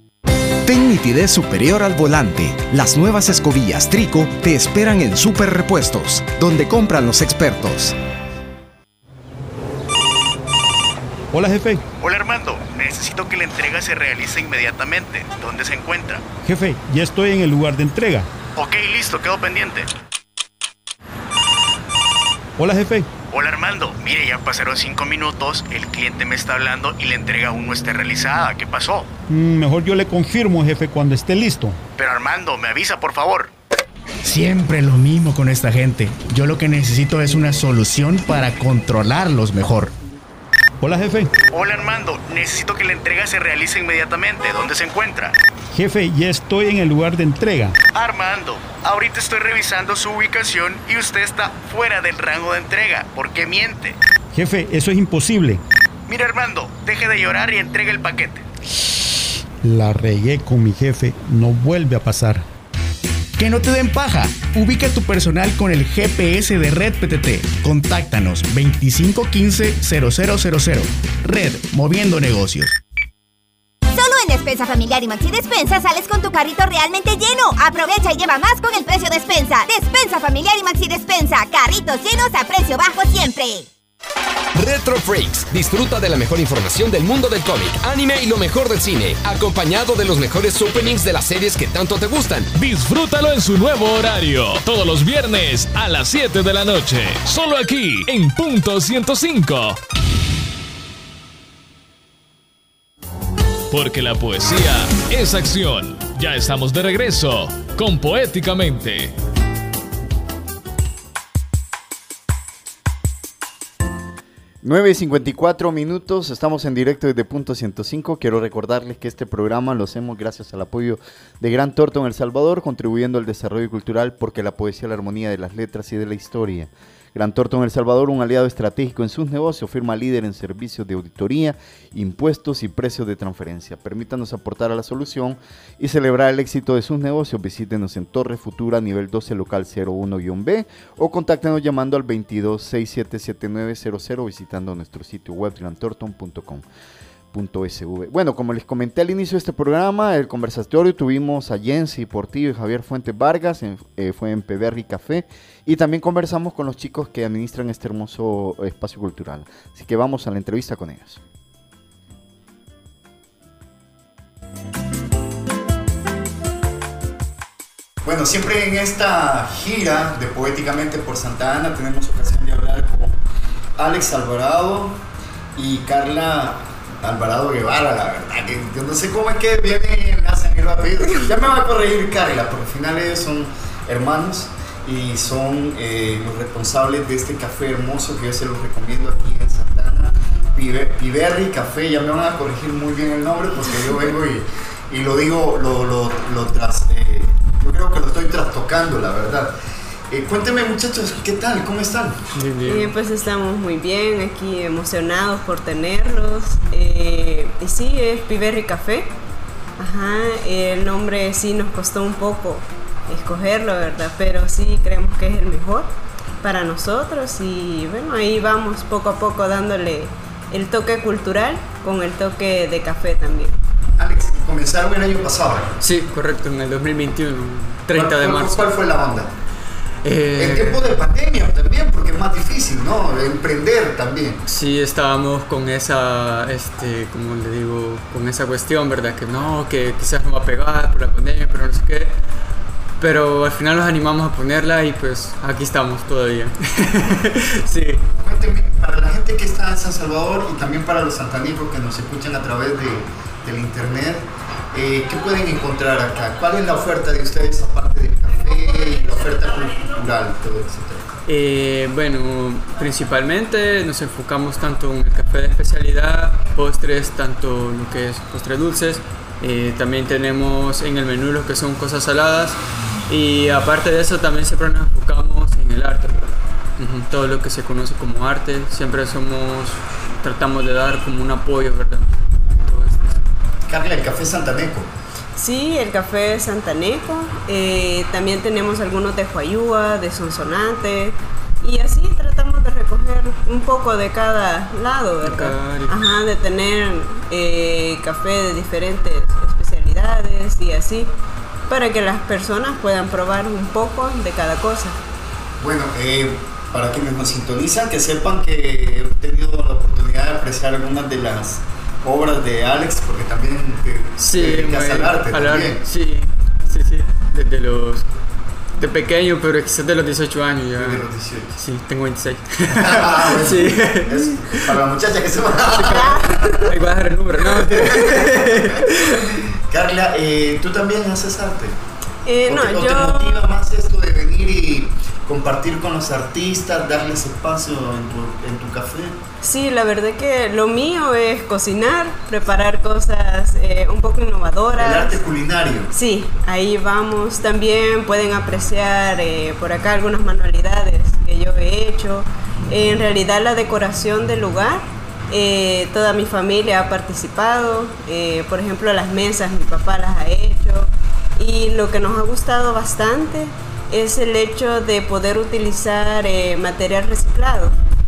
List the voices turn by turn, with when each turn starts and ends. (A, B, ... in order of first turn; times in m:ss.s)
0:00.6-0:07.9 A
0:11.3-0:11.8 B
0:12.0-0:16.2 C
0:16.4-0:18.3 B
0:18.6-0:19.8 C
0:22.6-0:23.1 B
0:23.2-0:29.1 C
0:29.3-0:31.8 B
0:31.9-0:33.5 C
0:34.2-0:39.8 D
0:40.8-0:41.3 B
0:41.5-0:45.3 C
0:45.7-0:47.7 B
0:47.9-0:54.0 C
0:54.3-0:55.6 B
0:56.1-0:58.4 C
0:59.6-1:02.4 B
1:03.4-1:12.7 D
1:13.9-1:23.7 E
1:24.5-1:32.5 F
1:32.5-1:39.8 G
1:43.7-1:49.1 G
1:54.6-2:26.6 H
2:27.3-2:41.2 H
2:48.0-2:53.2 H
2:53.8-2:55.0 H
2:55.5-3:19.5 H
3:20.1-3:22.2 H
3:22.3-3:23.0 I
3:22.6-3:29.1 J
3:29.8-3:35.9 J
3:36.4-3:43.5 J
3:44.0-3:45.7 H
3:45.8-3:48.7 I
3:47.9-3:49.3 H
3:50.0-3:51.0 I
3:50.4-3:54.4 H
3:54.4-4:02.1 I
4:03.0-4:08.0 I
4:08.2-4:21.1 H
4:21.2-4:42.1 I
4:42.6-4:43.2 I
4:43.7-4:44.9 H
4:45.4-5:01.1 J
4:55.2-4:56.0 I
5:01.7-5:05.0 J
5:05.6-5:15.8 H
5:14.2-5:18.1 I
5:18.8-5:21.0 I
5:20.7-5:21.6 H
5:21.6-5:24.7 I
5:22.7-5:26.8 H
5:25.7-5:29.2 I
5:25.8-5:26.6 J
5:27.4-5:31.8 H
5:32.2-5:33.5 J
5:32.4-5:39.2 H
5:39.4-5:45.2 J
5:44.8-5:45.9 H
5:45.9-6:07.8 J